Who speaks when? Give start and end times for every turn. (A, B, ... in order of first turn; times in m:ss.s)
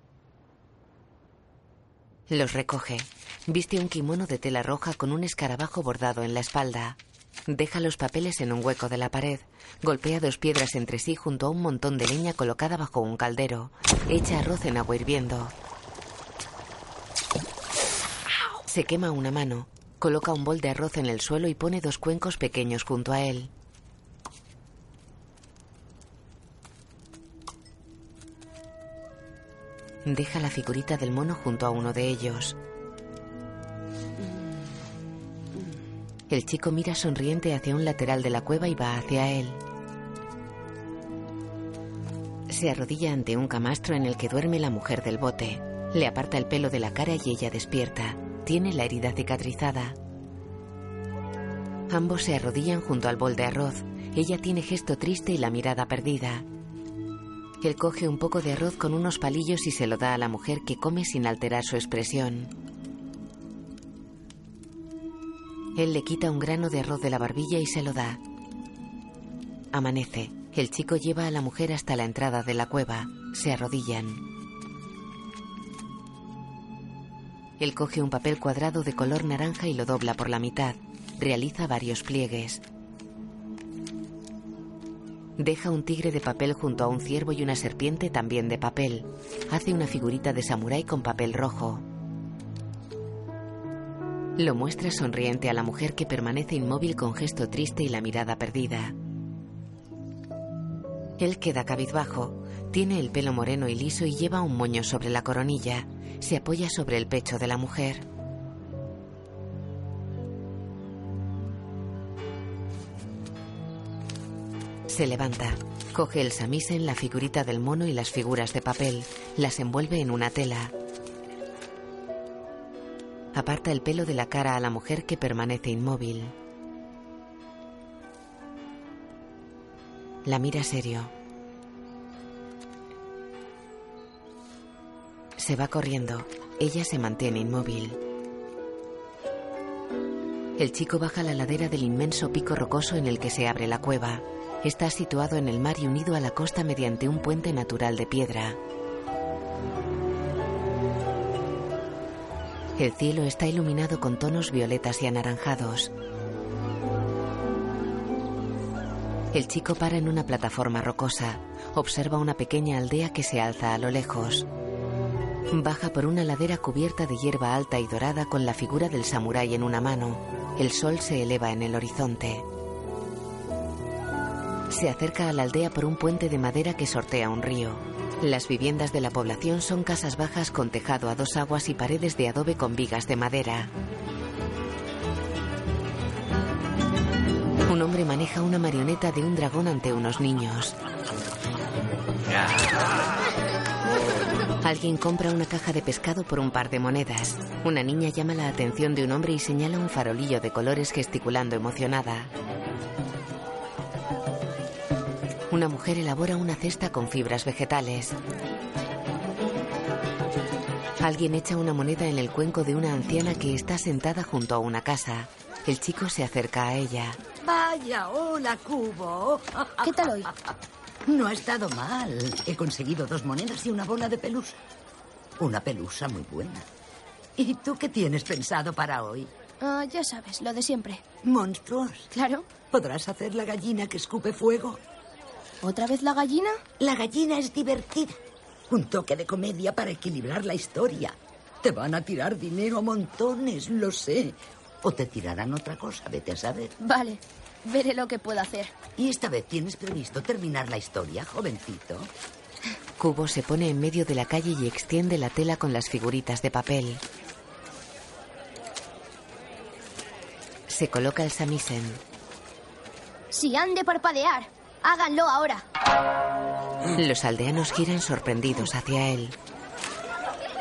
0:02.3-0:15.5 A
0:18.7-0:23.5 A
0:30.0-0:32.6 A
0:36.3-0:39.6 A
0:42.5-0:50.0 A
0:51.9-0:56.4 A
0:57.6-1:02.5 A
1:05.8-1:08.2 A
1:09.7-1:14.2 A
1:17.6-1:22.6 A
1:25.4-1:31.8 A
1:34.4-1:39.0 A
1:41.2-1:48.0 A
1:54.9-2:00.7 A
2:03.3-2:06.3 A
2:10.2-2:11.1 A
2:15.4-2:18.0 A
2:20.6-2:28.6 A
2:32.8-2:35.9 A
2:39.3-2:44.5 A
2:45.5-2:52.4 A
2:54.7-3:03.7 A
3:07.6-3:10.8 A
3:14.6-3:22.3 A
3:25.5-3:28.2 A
3:31.0-3:37.2 A
3:37.4-3:40.5 B
3:39.8-3:40.3 C
3:41.1-3:44.6 B
3:45.4-3:46.7 B
3:47.4-3:49.3 B
3:49.6-3:51.0 C
3:51.2-3:52.1 B
3:52.1-3:52.5 C
3:52.7-3:54.8 B
3:55.6-3:56.6 C
3:56.8-3:58.2 B
3:58.7-4:06.7 B
4:06.8-4:08.7 C
4:09.0-4:12.1 B
4:13.0-4:17.0 A
4:20.7-4:22.0 A
4:23.3-4:25.6 C
4:26.9-4:29.4 A